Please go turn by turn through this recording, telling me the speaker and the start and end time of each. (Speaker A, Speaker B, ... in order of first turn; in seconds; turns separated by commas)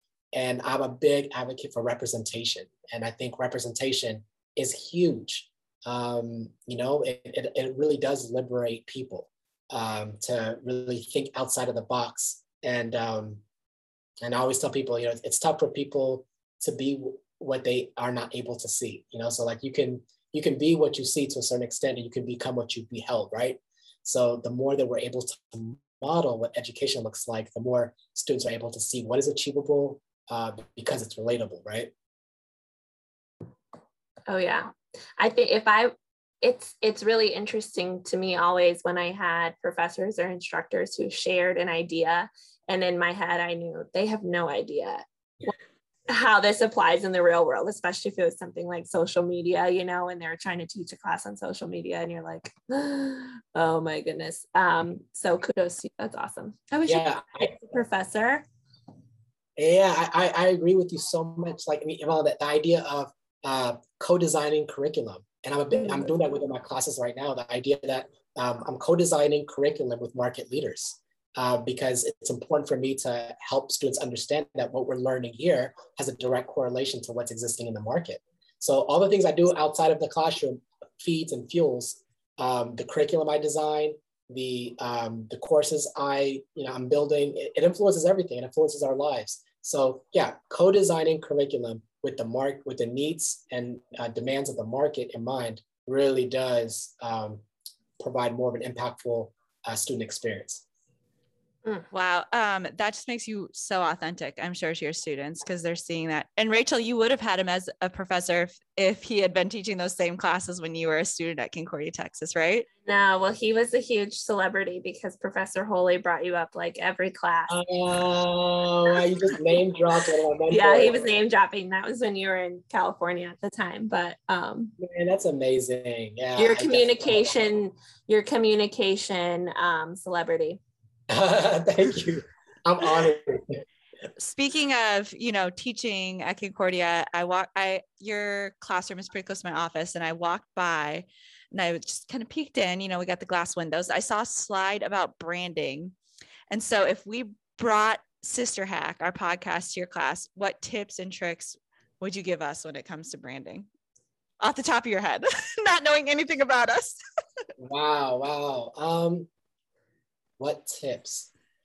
Speaker A: 0.3-13.4, Speaker A: 14.2-31.9, Speaker B: 34.3-45.5, Speaker B: 46.1-58.4, Speaker A: 56.9-57.5, Speaker A: 59.6-97.4, Speaker B: 65.7-66.1, Speaker A: 98.0-100.6, Speaker C: 101.9-112.7, Speaker B: 112.8-117.6, Speaker A: 117.5-121.0, Speaker B: 120.5-124.7, Speaker A: 124.8-127.3, Speaker B: 126.4-130.6, Speaker A: 131.1-133.6, Speaker C: 134.2-145.9, Speaker C: 146.5-153.7, Speaker C: 154.4-157.0, Speaker A: 157.6-159.3, Speaker A: 160.4-161.3